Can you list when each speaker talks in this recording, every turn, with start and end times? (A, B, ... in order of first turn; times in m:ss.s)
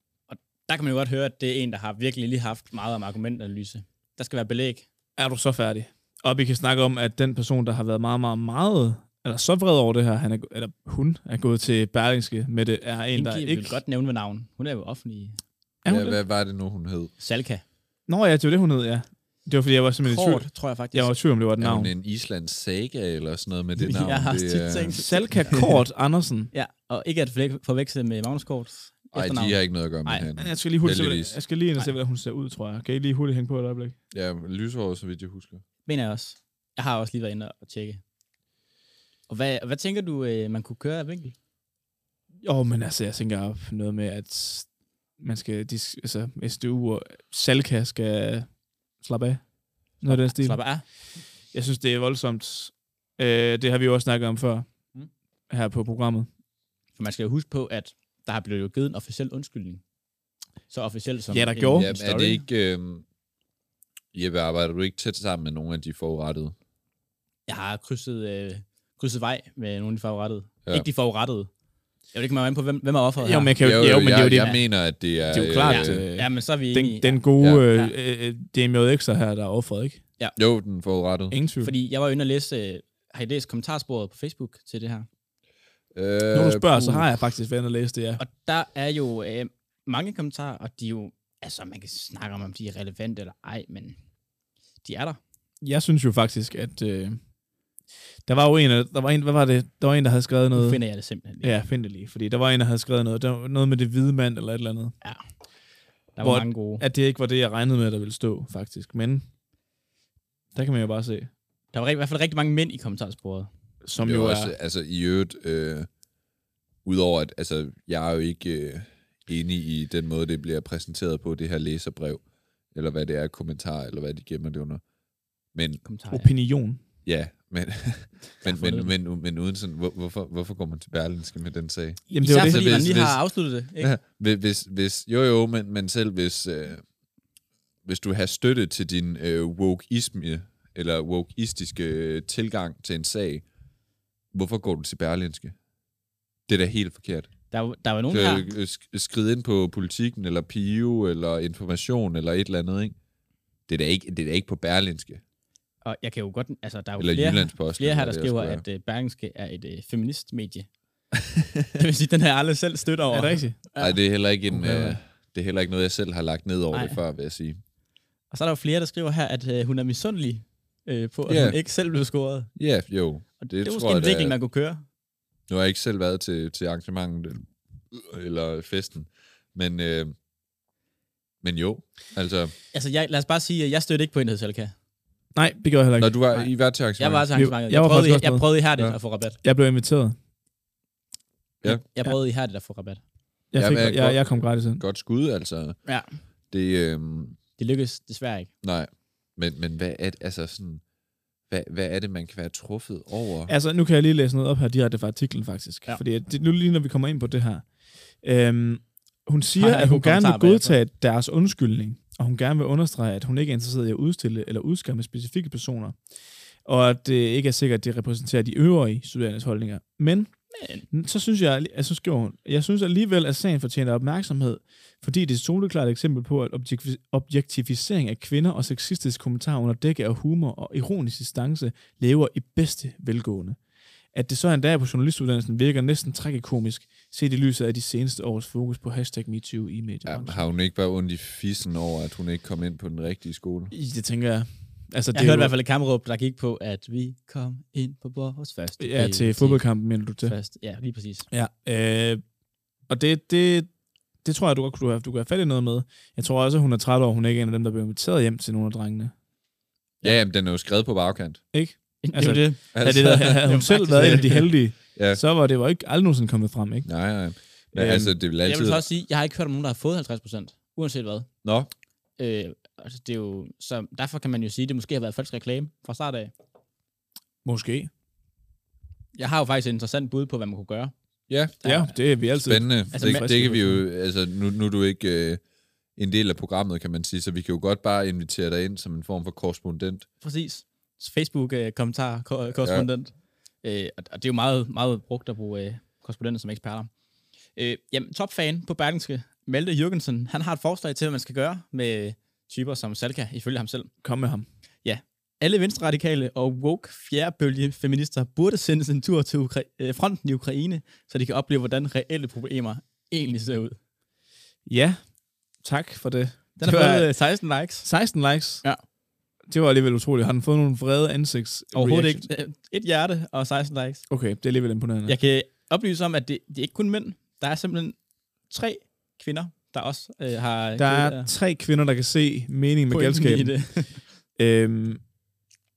0:00.3-0:04.9 A
0:05.2-0:13.8 B
0:13.1-0:15.4 A
0:15.8-0:16.2 B
0:15.8-0:17.1 C
0:17.2-0:17.6 A
0:18.1-0:21.9 B
0:20.0-0:21.2 A
0:21.6-0:25.0 C
0:23.8-0:25.7 A
0:25.0-0:26.5 B
0:26.5-0:30.3 A
0:29.1-0:31.4 C
0:30.4-0:34.0 B
0:34.1-0:35.6 C
0:35.8-0:38.0 A
0:39.3-0:41.3 A
0:42.4-0:48.5 B
0:49.0-0:50.9 B
0:50.0-0:50.8 A
0:51.5-0:54.7 B
0:55.5-0:56.3 B
0:57.0-0:59.8 A
1:00.7-1:02.4 A
1:01.3-1:02.0 B
1:01.8-1:03.0 C
1:04.1-1:06.5 C
1:07.5-1:11.5 A
1:12.1-1:13.5 A
1:13.2-1:14.6 B
1:13.6-1:16.0 C
1:15.3-1:20.0 B
1:15.6-1:17.2 A
1:17.4-1:17.6 C
1:20.4-1:21.4 C
1:21.3-1:21.7 B
1:21.6-1:25.1 A
1:25.9-1:27.1 C
1:26.3-1:28.2 B
1:28.2-1:34.0 A
1:34.8-1:35.2 A
1:35.6-1:37.2 B
1:38.3-1:40.8 B
1:40.5-1:41.6 A
1:41.4-1:44.9 B
1:46.2-1:46.8 A
1:46.2-1:49.2 B
1:50.5-1:51.3 B
1:51.7-1:53.5 A
1:53.8-1:54.5 B
1:54.0-1:55.9 C
1:56.8-2:04.8 C
2:05.5-2:05.8 C
2:05.8-2:06.3 A
2:06.1-2:06.8 B
2:07.0-2:16.8 C
2:08.4-2:08.9 A
2:12.1-2:13.9 A
2:12.1-2:12.8 B
2:17.8-2:23.4 C
2:24.3-2:25.6 C
2:26.5-2:27.3 C
2:27.5-2:28.5 A
2:28.1-2:33.0 C
2:33.7-2:35.2 C
2:35.8-2:40.7 A
2:37.0-2:38.6 C
2:41.8-2:44.0 A
2:43.1-2:43.6 B
2:43.8-2:47.6 C
2:44.5-2:45.0 B
2:46.7-2:47.0 A
2:48.3-2:52.5 A
2:51.3-2:51.6 C
2:52.5-2:54.4 C
2:53.4-2:54.8 A
2:55.5-3:00.1 C
3:01.4-3:02.5 C
3:02.7-3:04.7 A
3:05.3-3:06.2 B
3:06.0-3:07.3 C
3:06.3-3:09.4 A
3:07.3-3:08.8 B
3:09.4-3:10.2 B
3:11.6-3:13.0 A
3:13.5-3:14.8 B
3:13.5-3:15.9 C
3:15.8-3:16.2 A
3:16.5-3:17.4 C
3:17.6-3:18.5 A
3:18.6-3:20.8 C
3:21.5-3:23.5 C
3:23.5-3:27.7 B
3:28.2-3:36.0 B
3:29.6-3:30.8 A
3:36.6-3:53.6 B
3:40.5-3:40.9 A
3:54.1-4:00.4 B
4:00.0-4:03.7 C
4:03.7-4:05.5 B
4:05.1-4:09.6 A
4:08.8-4:10.4 B
4:10.2-4:11.3 A
4:11.3-4:12.2 B
4:12.9-4:13.7 B
4:14.2-4:19.1 B
4:20.0-4:21.4 C
4:21.5-4:27.0 B
4:22.0-4:24.5 A
4:22.7-4:23.4 C
4:24.9-4:25.2 C
4:26.8-4:28.8 C
4:27.7-4:28.1 B
4:28.4-4:31.3 A
4:31.4-4:31.7 C
4:32.2-4:36.3 A
4:37.4-4:37.9 B
4:39.1-4:40.9 A
4:41.3-4:41.6 C
4:41.6-4:41.9 A
4:41.6-4:43.8 B
4:42.4-4:45.4 C
4:42.9-4:43.5 A
4:46.0-4:50.0 C
4:50.2-4:56.9 A
4:52.6-4:52.9 C
4:57.5-5:03.9 A
5:04.0-5:04.4 B
5:04.8-5:13.8 A
5:14.6-5:18.6 B
5:16.6-5:18.1 A
5:19.5-5:22.3 B
5:21.7-5:24.0 A
5:24.1-5:25.2 B
5:25.1-5:28.0 A
5:28.5-5:31.3 A
5:30.8-5:33.8 B
5:32.9-5:34.1 A
5:34.4-5:35.0 B